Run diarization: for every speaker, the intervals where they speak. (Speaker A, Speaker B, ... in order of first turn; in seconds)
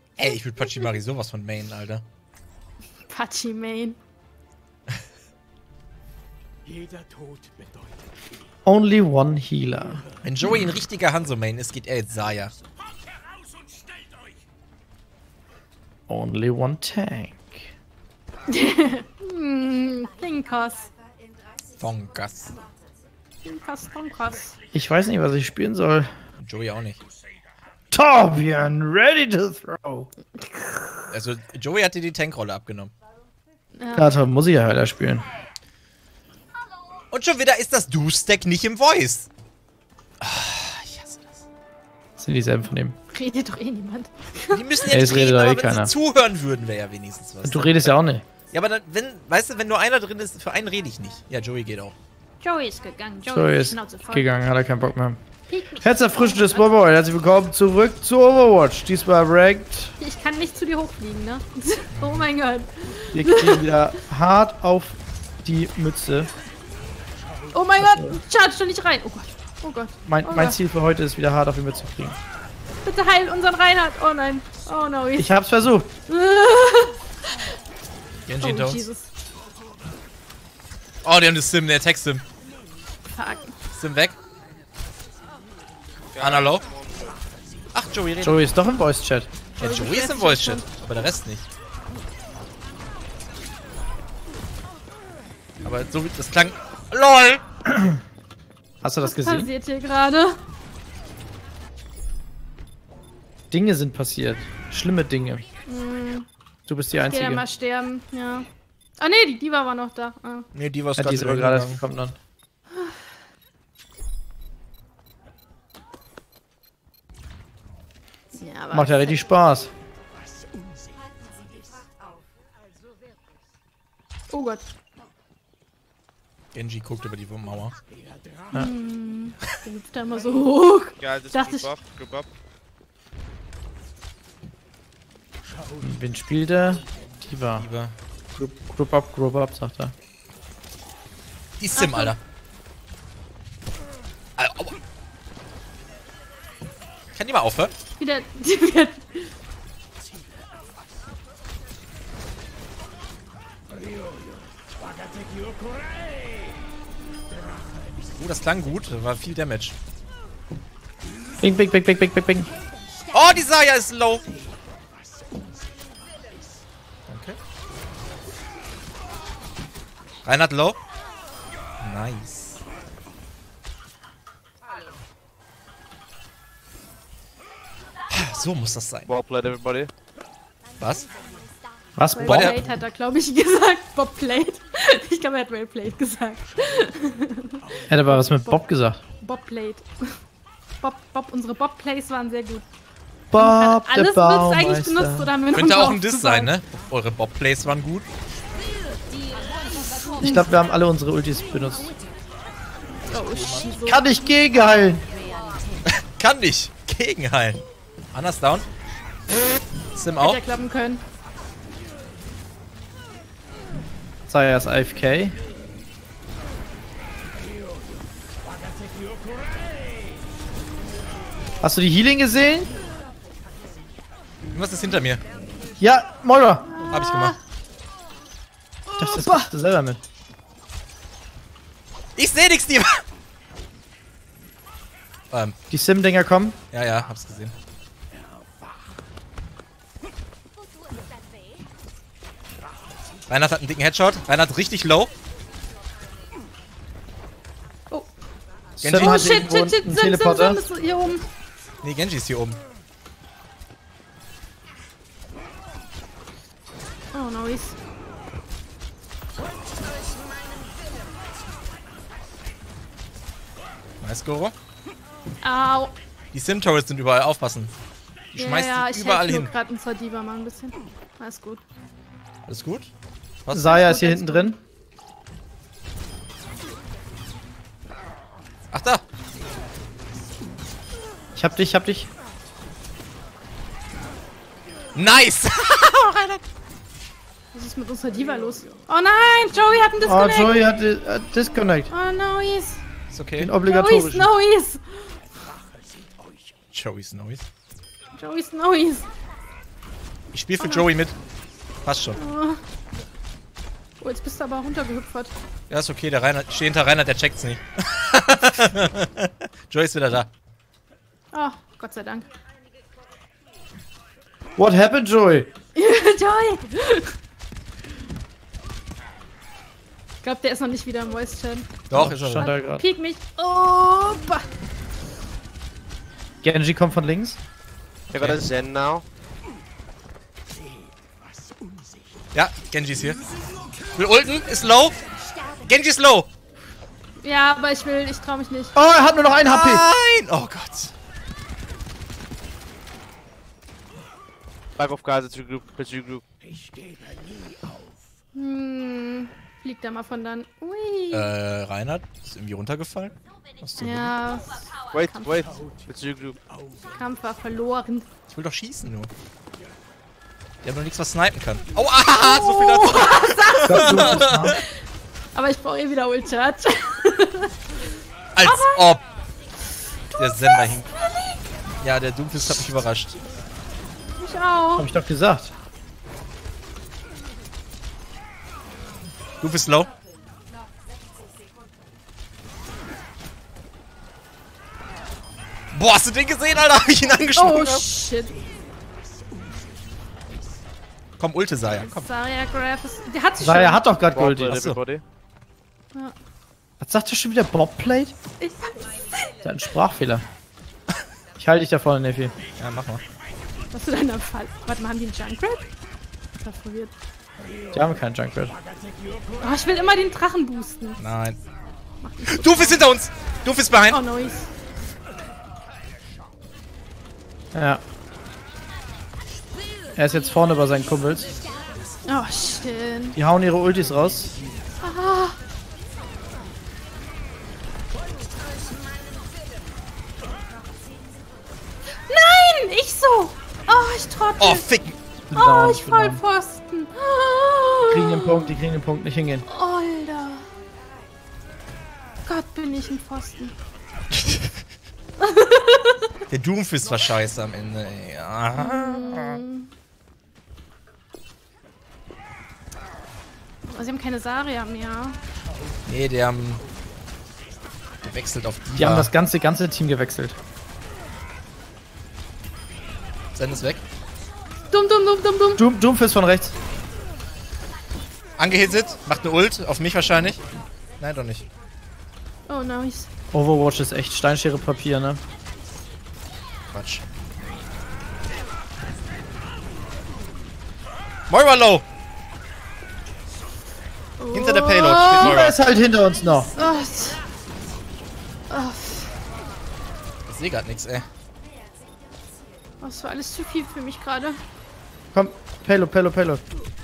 Speaker A: 0.2-2.0, 10.2-12.5, 21.8-22.6, 26.4-27.0, 31.1-32.9, 37.1-39.3, 40.2-41.4, 44.5-48.0, 48.5-52.0, 61.9-62.3, 78.3-78.8, 81.0-82.2, 83.7-84.2, 86.2-86.7, 87.7-88.5, 89.6-91.5, 95.6-97.4, 110.5-111.8, 126.5-127.8, 137.5-137.9, 141.6-142.2, 144.4-144.8, 147.2-147.7, 158.2-159.8, 163.1-164.2, 167.1-167.4, 170.2-170.8, 171.8-172.6, 178.1-179.1, 180.8-181.1, 182.2-182.6, 195.5-198.1, 203.1-203.8, 206.1-208.7, 209.9-210.4, 224.5-225.2, 226.9-227.4, 232.2-233.0, 236.7-237.5, 243.3-245.1, 248.8-249.3, 251.8-252.6, 264.0-264.5, 266.3-267.7, 268.3-269.5, 272.5-272.9, 273.4-273.7, 278.7-279.0, 284.9-286.4, 293.1-293.5, 296.7-297.5, 300.3-301.2, 301.9-302.2, 305.7-310.3, 321.9-322.5, 328.1-328.4, 332.3-333.2, 333.9-335.0, 335.6-336.3, 339.4-340.9, 351.1-354.1, 358.3-359.1, 360.6-364.6, 368.4-369.0, 370.2-370.9, 371.8-373.2, 379.4-379.9, 385.7-387.9, 391.2-392.1, 394.3-394.8, 402.6-403.0, 411.0-411.4, 412.3-414.0, 434.4-435.0, 446.3-449.4, 455.9-456.6, 458.0-459.1, 463.4-463.8, 468.4-470.4, 471.0-471.5, 476.7-477.0, 481.3-481.9, 484.3-485.6, 490.3-491.1
Speaker B: 3.0-4.0, 18.5-20.9, 23.4-24.6, 30.4-31.0, 33.8-34.2, 43.1-44.8, 52.4-54.4, 55.5-56.8, 60.0-63.8, 67.5-70.6, 72.8-75.3, 76.1-77.0, 78.4-79.1, 83.1-83.5, 89.6-90.7, 99.0-100.4, 105.7-106.3, 107.0-108.5, 109.0-110.5, 118.3-119.2, 124.3-124.7, 128.5-131.7, 141.8-142.2, 148.0-149.3, 182.2-188.6, 189.2-190.2, 190.8-192.6, 193.4-196.5, 203.1-204.0, 210.2-211.0, 226.8-227.3, 229.0-229.5, 248.9-251.2, 257.1-257.8, 265.4-266.0, 268.4-271.6, 273.6-274.5, 287.5-290.6, 291.9-292.8, 293.6-295.2, 298.1-299.1, 300.6-300.9, 302.2-302.6, 304.0-305.3, 311.3-312.3, 315.8-317.1, 320.2-321.7, 322.4-324.5, 337.2-338.7, 348.3-351.3, 353.8-355.4, 356.9-358.1, 362.2-364.6, 365.3-367.6, 368.4-369.0, 374.2-374.9, 387.4-388.4, 391.7-393.8, 398.4-399.2, 403.7-405.7, 406.4-406.9, 409.4-411.0, 412.0-412.9, 413.9-414.5, 422.1-423.2, 424.8-425.4, 432.1-434.6, 435.3-438.6, 439.5-440.5, 442.3-443.6, 445.2-446.0, 448.6-449.7, 453.7-455.2, 464.7-465.6, 472.5-473.1, 484.2-485.4, 486.5-487.2, 488.5-489.1, 492.8-494.4
Speaker C: 8.7-10.1, 16.1-17.7, 24.7-26.1, 27.9-30.1, 34.0-35.3, 42.2-43.0, 44.9-45.9, 47.4-48.2, 53.3-55.2, 55.8-60.0, 63.1-66.3, 67.8-68.2, 70.0-72.2, 75.2-75.9, 88.2-89.3, 97.7-98.0, 98.8-99.5, 103.5-105.5, 106.7-107.5, 111.0-112.2, 118.7-119.7, 135.8-137.7, 138.4-139.9, 161.4-162.5, 182.0-182.7, 187.9-189.0, 193.3-195.3, 200.2-201.9, 203.8-205.1, 214.3-215.4, 221.6-222.7, 225.8-226.9, 229.0-230.0, 235.7-236.6, 248.8-250.6, 273.5-274.6, 281.3-282.1, 290.0-291.9, 293.4-294.3, 314.6-315.5, 321.9-322.9, 326.4-327.4, 338.8-339.9, 363.7-364.6, 374.8-375.5, 393.4-394.6, 396.8-398.1, 399.4-400.2, 401.4-402.4, 407.7-408.6, 417.5-417.8, 420.0-421.3, 423.1-424.4, 435.3-436.2, 437.9-439.5, 458.8-460.4, 465.6-466.5, 473.3-475.2, 485.2-486.5, 495.1-496.4
Speaker D: 86.1-87.2, 131.0-132.3, 179.1-179.9, 328.1-329.1, 344.8-346.2, 354.9-356.4, 394.0-395.0